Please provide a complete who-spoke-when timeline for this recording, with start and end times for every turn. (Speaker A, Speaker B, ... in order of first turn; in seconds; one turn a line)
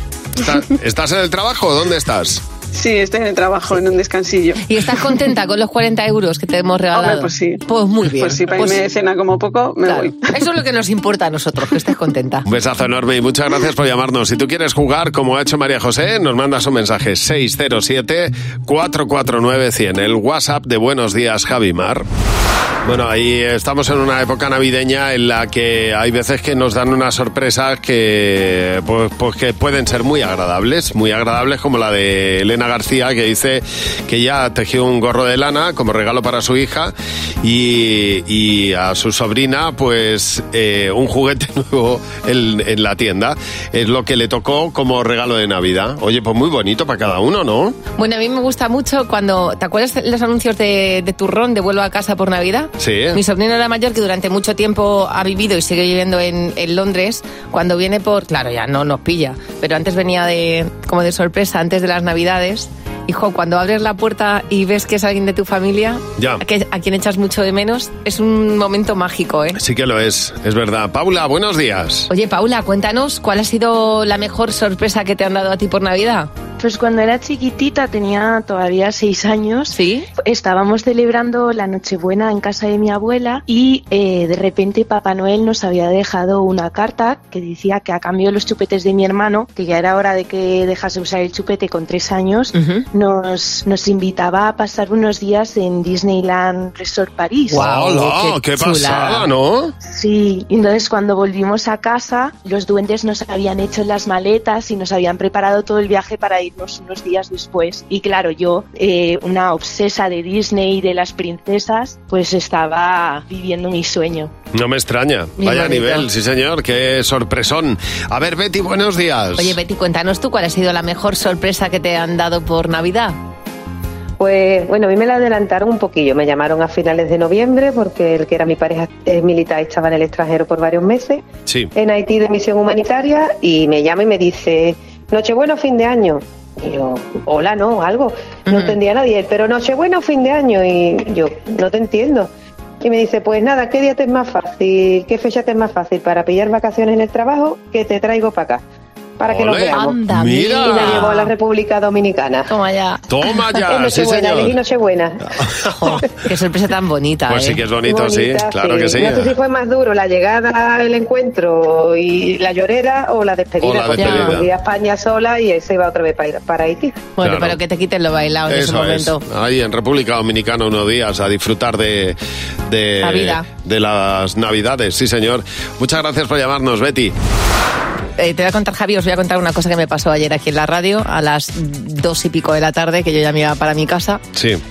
Speaker A: 0.4-2.4
Speaker B: 2.7-4.6
Speaker C: 4.6-8.8
Speaker B: 6.9-10.2
Speaker C: 9.8-12.5
Speaker A: 12.4-22.1
Speaker A: 22.8-47.8
Speaker C: 48.0-69.6
Speaker A: 52.8-53.2
Speaker A: 66.2-66.4
Speaker A: 69.5-72.1
Speaker C: 72.1-76.3
Speaker D: 76.6-97.6
Speaker C: 79.7-80.0
Speaker C: 92.5-92.8
Speaker C: 97.5-99.2
Speaker A: 97.5-99.7
Speaker D: 99.8-114.3
Speaker A: 114.5-119.6
Speaker C: 115.4-116.0
Speaker C: 119.4-123.2
Speaker E: 124.2-131.2
Speaker A: 131.4-131.7
Speaker E: 131.7-142.3
Speaker C: 138.5-138.8
Speaker E: 142.8-148.6
Speaker E: 149.2-150.0
Speaker A: 149.3-151.1
Speaker C: 149.7-151.3
Speaker E: 150.6-152.5
Speaker C: 152.5-153.0
Speaker A: 153.1-154.6
Speaker E: 153.7-155.2
Speaker C: 155.7-157.6
Speaker A: 157.3-159.3
Speaker E: 157.8-166.9
Speaker A: 163.6-164.5
Speaker C: 164.0-164.4
Speaker C: 167.2-169.2
Speaker A: 167.2-167.6
Speaker A: 168.5-172.2
Speaker A: 172.7-177.1
Speaker C: 173.0-173.4
Speaker C: 178.2-184.2
Speaker A: 184.3-184.6